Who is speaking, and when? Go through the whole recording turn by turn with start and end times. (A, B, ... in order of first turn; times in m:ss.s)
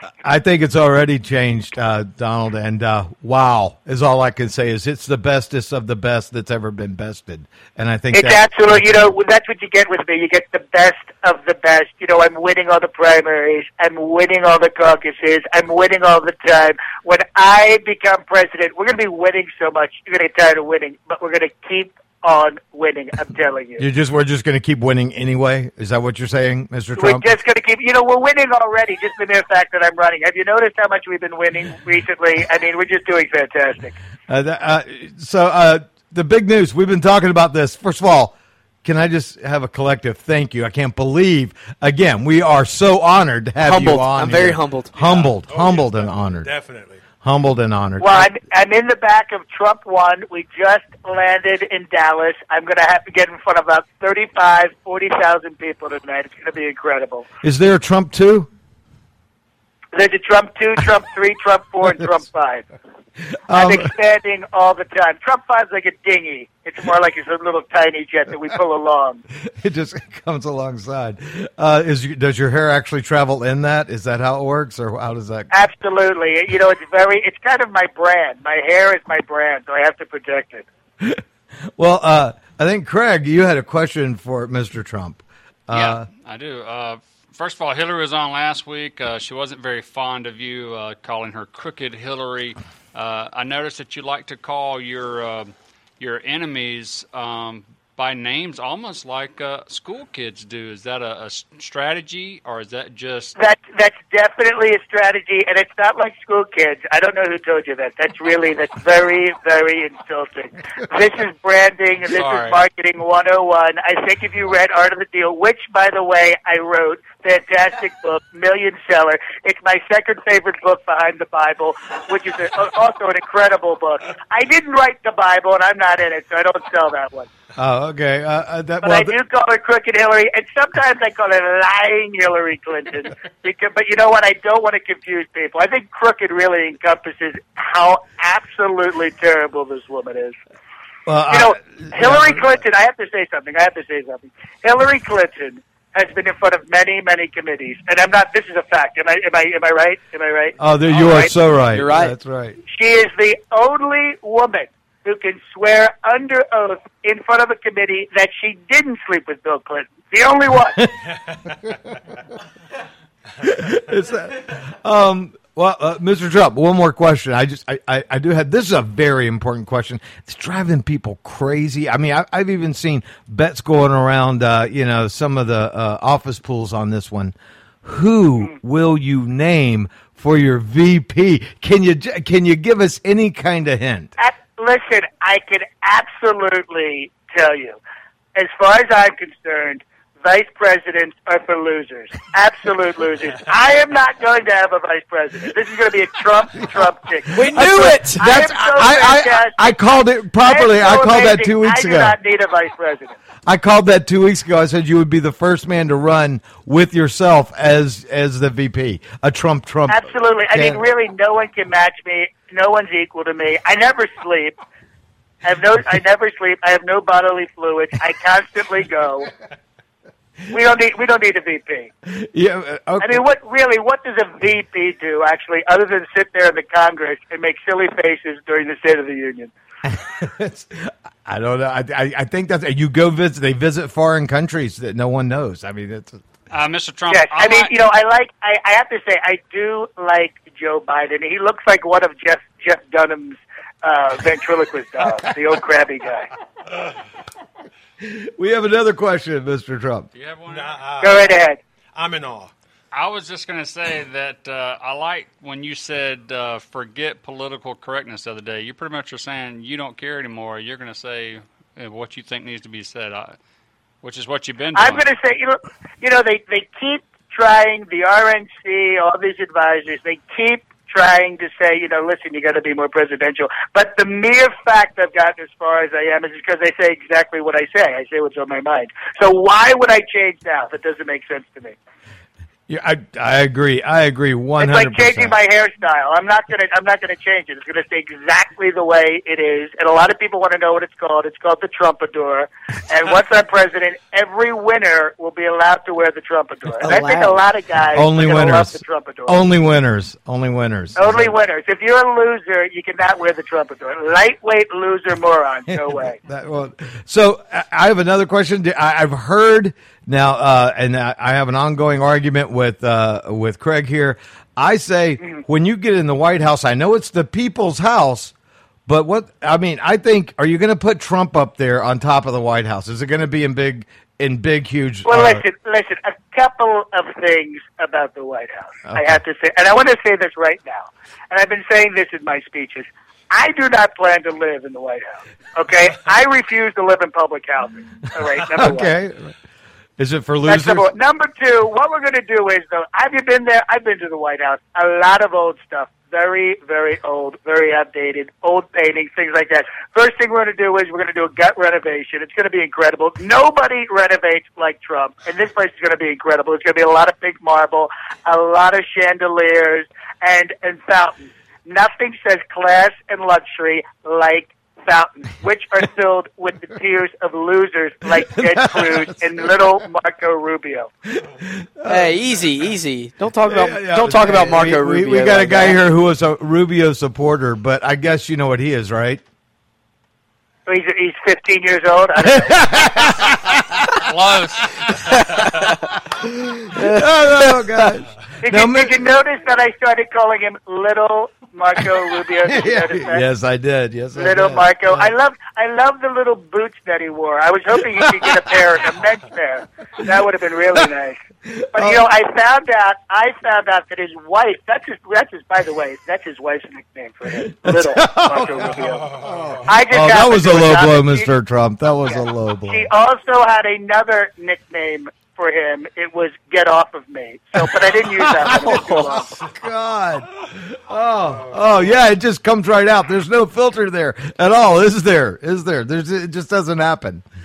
0:00.2-0:08.9 A
0:08.1-0:23.8 B
0:23.8-0:27.3 A
0:27.0-0:34.0 B
0:34.3-0:46.5 A
0:43.6-0:45.1 C
0:45.0-0:47.1 D
0:47.2-0:48.3 A
0:48.0-0:57.3 B
0:57.4-0:58.5 A
0:59.9-1:02.7 B
1:03.5-1:03.9 A
1:03.5-1:09.2 B
1:09.4-1:15.5 A
1:15.5-1:20.7 B
1:21.8-1:26.1 A
1:25.7-1:43.4 E
1:43.4-2:07.3 B
1:52.0-1:52.6 E
2:07.6-2:09.2 A
2:08.8-2:20.4 B
2:21.1-2:22.5 A
2:21.3-2:31.3 B
2:30.6-2:32.6 A
2:31.7-2:32.1 C
2:32.6-2:40.8 B
2:41.6-2:42.1 A
2:43.4-3:04.1 A
3:04.2-3:07.8 B
3:08.4-3:19.8 B
3:16.6-3:22.2 A
3:17.3-3:18.3 C
3:20.4-3:23.2 B
3:23.5-3:30.8 A
3:29.9-3:34.6 B
3:35.4-3:39.3 B
3:40.5-3:41.9 B
3:42.1-3:43.2 A
3:43.0-3:49.5 B
3:49.8-3:56.2 A
3:56.5-3:57.7 E
3:57.1-4:06.3 B
4:08.0-4:10.1 A
4:10.1-4:10.8 E
4:10.5-4:11.4 D
4:11.0-4:11.6 B
4:12.0-4:12.5 D
4:12.9-4:23.4 E
4:24.0-4:25.1 E
4:24.8-4:41.8 B
4:42.7-4:45.4 A
4:44.6-4:59.4 B
4:56.7-5:01.3 A
5:01.0-5:06.2 B
5:05.7-5:18.3 A
5:18.9-5:25.4 A
5:25.1-5:38.9 B
5:28.9-5:29.2 A
5:38.5-5:39.4 A
5:40.0-5:40.9 A
5:40.5-6:10.9 B
6:08.2-6:09.7 A
6:11.1-6:12.2 A
6:11.9-6:15.8 C
6:13.4-6:19.2 A
6:20.7-6:22.7 B
6:22.2-6:24.1 A
6:24.0-6:25.3 E
6:25.1-6:25.9 C
6:25.6-6:29.1 A
6:26.7-6:28.0 C
6:28.4-6:33.3 B
6:32.4-6:35.1 A
6:34.2-6:41.2 B
6:37.9-6:38.6 A
6:41.4-6:42.1 A
6:41.7-6:49.1 B
6:47.4-6:52.9 A
6:48.7-6:49.7 D
6:49.6-6:51.3 B
6:52.1-6:59.3 B
6:57.7-7:07.2 A
6:58.7-6:59.4 C